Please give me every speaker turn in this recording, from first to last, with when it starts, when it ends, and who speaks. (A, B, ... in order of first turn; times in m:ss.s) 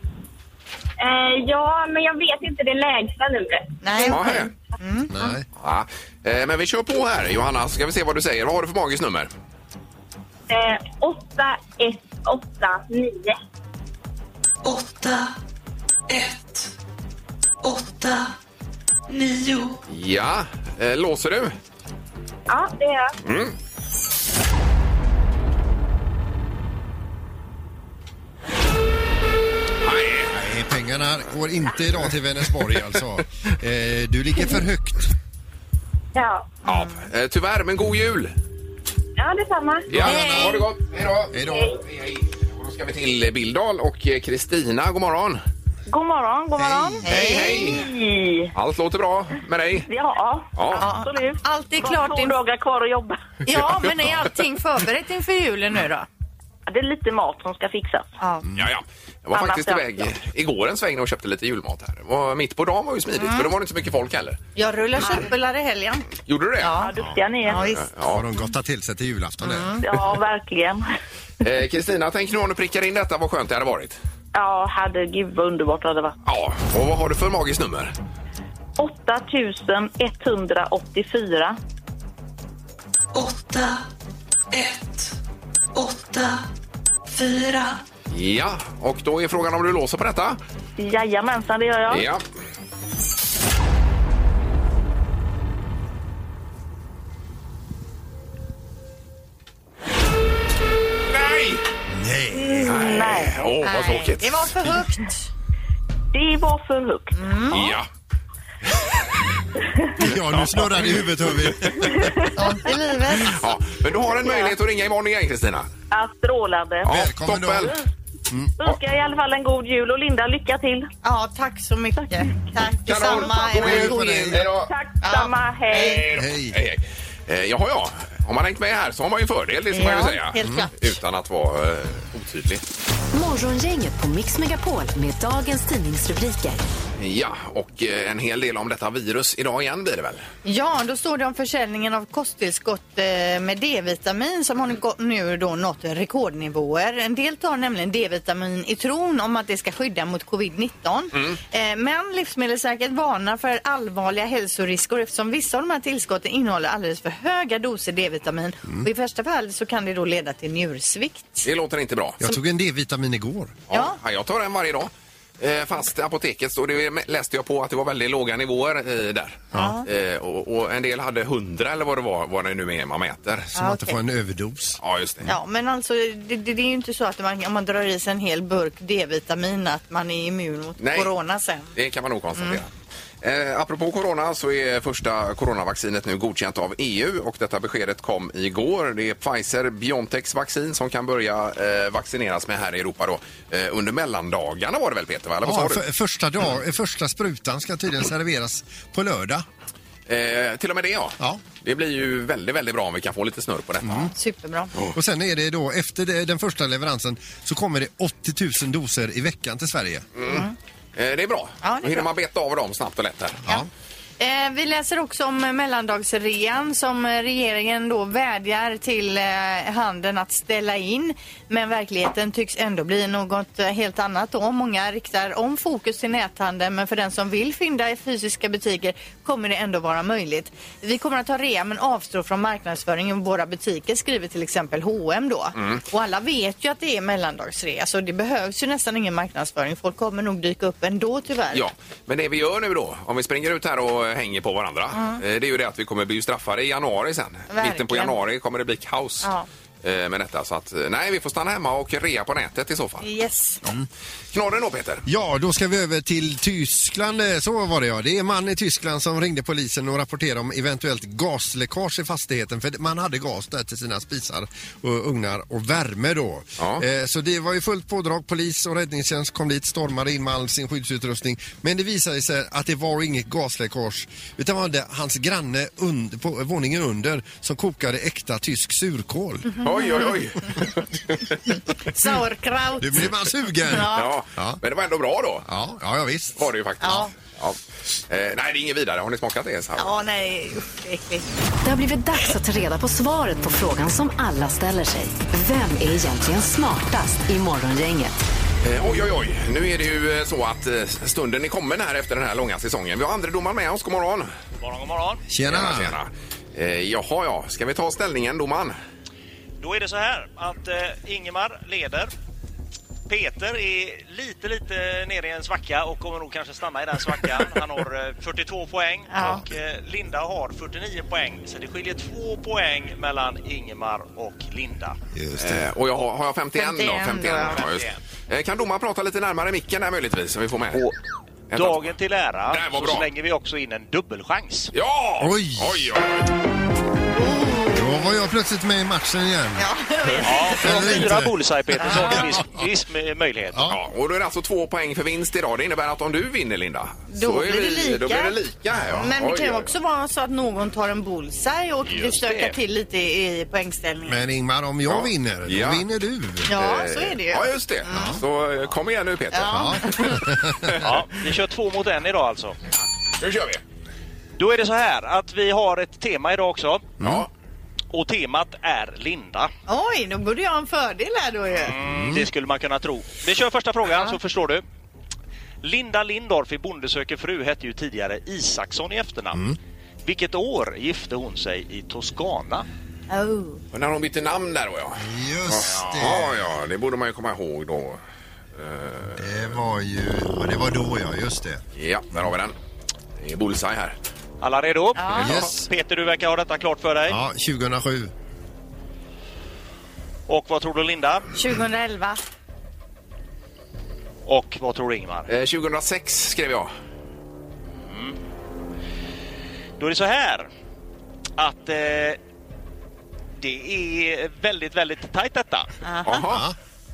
0:01.0-0:04.4 A
0:03.8-0:05.3 B
0:04.0-0:04.5 C
0:05.1-0:05.4 D
0:05.6-0:09.3 C
0:10.5-0:13.4 A
0:14.6-0:15.4 E
0:16.1-0:16.7 E
0:17.6-0:18.4 E
0:19.1-0:19.8 E
0:19.9-0:21.5 C
0:22.5-0:23.1 A
0:23.2-0:23.6 C
0:29.8-0:30.3 C
0:30.3-0:35.1 D
0:36.1-0:36.5 A
0:36.6-0:38.3 C
0:36.7-0:37.0 B
0:39.2-0:39.9 A
0:39.9-0:40.6 D
0:39.9-0:45.4 C
0:40.0-0:40.6 B
0:41.3-0:41.8 D
0:45.9-0:48.5 A
0:46.6-0:47.0 D
0:47.0-0:47.7 B
0:47.1-0:47.9 C
0:48.5-0:49.9 C
0:49.8-0:53.2 A
0:50.6-0:50.9 C
0:50.8-0:52.4 B
0:53.4-0:56.1 B
0:53.8-0:54.2 C
0:56.7-0:58.1 A
0:58.6-1:04.4 C
0:59.3-1:00.1 A
1:03.2-1:03.5 B
1:04.6-1:06.1 B
1:06.2-1:06.7 C
1:06.6-1:06.9 B
1:06.8-1:07.6 A
1:07.0-1:09.8 D
1:07.5-1:07.8 B
1:07.7-1:08.2 C
1:09.4-1:09.8 B
1:09.8-1:10.9 A
1:11.4-1:14.0 C
1:14.3-1:16.2 A
1:16.2-1:17.9 C
1:18.8-1:21.6 A
1:23.1-1:23.8 E
1:24.5-1:25.2 E
1:25.7-1:26.5 E
1:27.1-1:27.8 E
1:28.1-1:30.4 C
1:30.8-1:32.0 A
1:31.9-1:32.2 C
1:41.1-1:41.6 C
1:41.9-1:42.8 D
1:42.3-1:43.5 A
1:42.6-1:44.5 C
1:43.6-1:45.3 B
1:46.1-1:47.1 A
1:47.1-1:47.7 B
1:47.5-1:47.9 C
1:50.0-1:52.5 D
1:50.3-1:51.5 C
1:52.4-1:53.4 B
1:53.2-1:55.7 C
1:54.2-1:54.5 A
1:55.9-1:56.9 A
1:56.8-1:57.8 C
1:56.8-1:57.8 D
1:58.3-1:58.6 D
1:58.6-2:00.9 A
2:01.0-2:04.4 B
2:02.8-2:04.7 C
2:03.5-2:04.5 D
2:04.7-2:06.1 A
2:05.0-2:06.0 B
2:05.7-2:12.6 C
2:06.1-2:06.6 D
2:09.7-2:10.9 B
2:13.1-2:16.6 F
2:17.0-2:20.2 C
2:20.4-2:41.5 B
2:41.4-2:42.2 C
2:42.2-2:43.6 D
2:43.7-2:53.5 C
2:49.5-2:49.8 D
2:49.5-2:49.8 B
2:53.5-2:54.8 D
2:53.6-2:54.0 B
2:54.8-2:55.3 C
2:55.2-3:01.7 B
3:00.8-3:01.1 C
3:01.7-3:02.7 C
3:03.2-3:15.8 C
3:15.4-3:19.4 D
3:20.1-3:24.1 C
3:23.8-3:24.1 D
3:24.1-3:24.7 B
3:24.9-3:30.1 D
3:30.2-3:33.5 C
3:30.3-3:30.5 B
3:31.6-3:32.1 B
3:34.2-4:01.6 B
3:55.6-3:55.8 C
4:01.5-4:09.3 C
4:04.9-4:05.2 B
4:07.5-4:08.1 B
4:09.8-4:13.1 C
4:13.0-4:13.6 B
4:14.3-4:15.0 C
4:15.0-4:39.6 D
4:39.5-4:40.1 B
4:39.6-4:41.4 C
4:41.8-4:43.0 B
4:42.8-4:44.6 D
4:43.6-4:44.1 B
4:43.9-4:45.4 C
4:45.4-4:46.5 D
4:46.4-4:47.6 C
4:46.8-4:47.1 B
4:48.1-4:49.9 C
4:49.8-4:51.2 B
4:51.6-4:58.2 F
4:58.6-5:04.3 C
5:04.6-5:05.2 G
5:05.3-5:06.0 D
5:05.5-5:08.8 C
5:09.6-5:12.1 G
5:13.1-5:25.0 G
5:19.1-5:19.4 B
5:25.1-5:25.7 D
5:25.4-5:30.8 C
5:26.6-5:27.6 B
5:27.4-5:28.0 G
5:31.5-5:31.9 C
5:31.5-5:34.7 G
5:32.5-5:33.1 C
5:34.7-5:36.3 C
5:35.2-5:35.9 D
5:37.1-5:38.0 B
5:37.7-5:39.7 D
5:39.6-5:41.0 B
5:40.2-5:43.6 G
5:40.6-5:42.6 D
5:41.8-5:42.1 B
5:43.7-5:49.7 C
5:47.1-5:48.3 B
5:49.0-5:54.2 B
5:51.8-5:52.6 G
5:54.1-5:56.5 D
5:54.9-5:55.8 C
5:56.5-5:58.2 B
5:56.5-5:59.7 C
5:57.9-5:58.2 D
5:59.3-6:00.2 B
5:59.4-6:00.7 D
6:00.8-6:02.6 G
6:03.2-6:03.6 C
6:04.4-6:06.9 G
6:07.0-6:07.2 D
6:07.0-6:07.3 C
6:07.9-6:09.5 G
6:09.7-6:11.7 B
6:11.6-6:14.6 G
6:11.9-6:12.2 D
6:15.6-6:19.4 G
6:20.0-6:22.6 G
6:23.1-6:23.6 B
6:23.7-6:28.0 C
6:25.0-6:26.5 D
6:28.6-6:29.4 C
6:29.2-6:31.6 D
6:31.8-6:32.5 C
6:33.2-6:33.9 C
6:34.4-6:37.2 G
6:34.9-6:35.4 B
6:35.2-6:35.6 D
6:37.1-6:38.1 D
6:40.3-6:41.3 G
6:41.3-6:42.2 B
6:44.2-6:45.3 G
6:45.3-6:46.7 C
6:47.8-6:48.2 G
6:49.8-6:50.5 G
6:51.4-6:52.2 G
6:53.4-6:55.7 G
6:55.8-6:56.2 B
6:56.0-6:56.4 C
6:56.3-6:56.5 D